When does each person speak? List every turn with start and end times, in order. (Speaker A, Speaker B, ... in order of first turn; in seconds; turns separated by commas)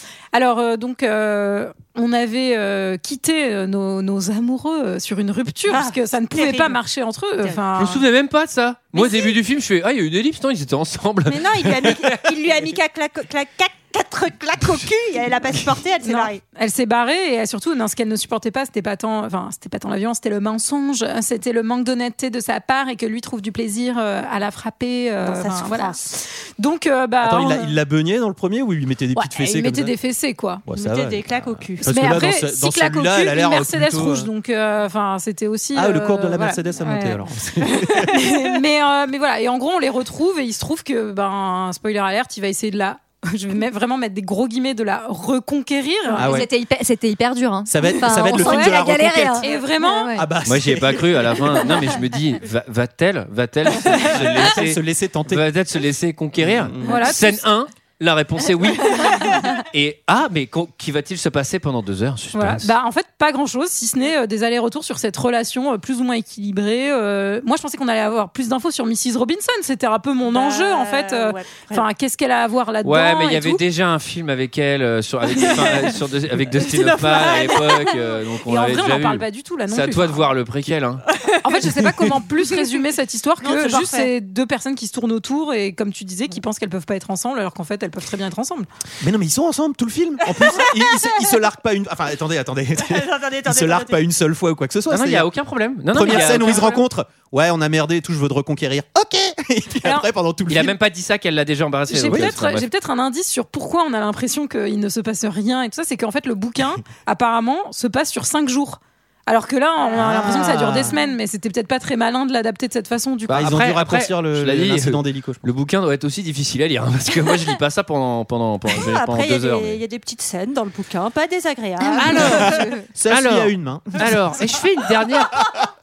Speaker A: 0.3-8.0, Speaker B: 5.7-6.8, Speaker C: 7.8-12.2, Speaker B: 8.9-9.3, Speaker B: 11.3-16.4, Speaker A: 16.0-27.7, Speaker B: 25.2-26.0, Speaker D: 27.2-29.9, Speaker A: 29.1-30.6, Speaker D: 30.6-34.3, Speaker B: 30.7-31.9, Speaker A: 31.8-37.2, Speaker D: 35.7-38.3, Speaker A: 38.0-46.4, Speaker D: 46.2-46.5, Speaker E: 46.2-50.2, Speaker D: 47.7-49.5, Speaker A: 48.2-48.8, Speaker A: 49.4-50.2, Speaker D: 50.1-51.7, Speaker C: 50.5-62.7, Speaker D: 53.8-55.5, Speaker D: 56.4-57.1, Speaker A: 56.8-57.4, Speaker A: 62.3-73.6, Speaker B: 70.3-71.8, Speaker C: 72.8-81.0, Speaker B: 75.3-76.0, Speaker B: 76.5-78.0, Speaker A: 78.4-80.3, Speaker B: 81.1-81.7, Speaker A: 81.4-88.7, Speaker B: 83.4-84.1, Speaker D: 89.0-95.3, Speaker B: 90.5-91.0, Speaker B: 92.8-94.0, Speaker C: 94.9-96.8, Speaker D: 95.9-100.8, Speaker A: 96.3-96.7, Speaker C: 100.5-102.7, Speaker A: 101.9-113.4, Speaker D: 102.0-102.3, Speaker D: 109.9-111.0, Speaker D: 113.3-115.4, Speaker C: 113.3-119.8, Speaker B: 118.7-122.7, Speaker E: 121.8-122.9, Speaker C: 122.0-122.5, Speaker D: 122.2-124.2, Speaker C: 123.1-125.4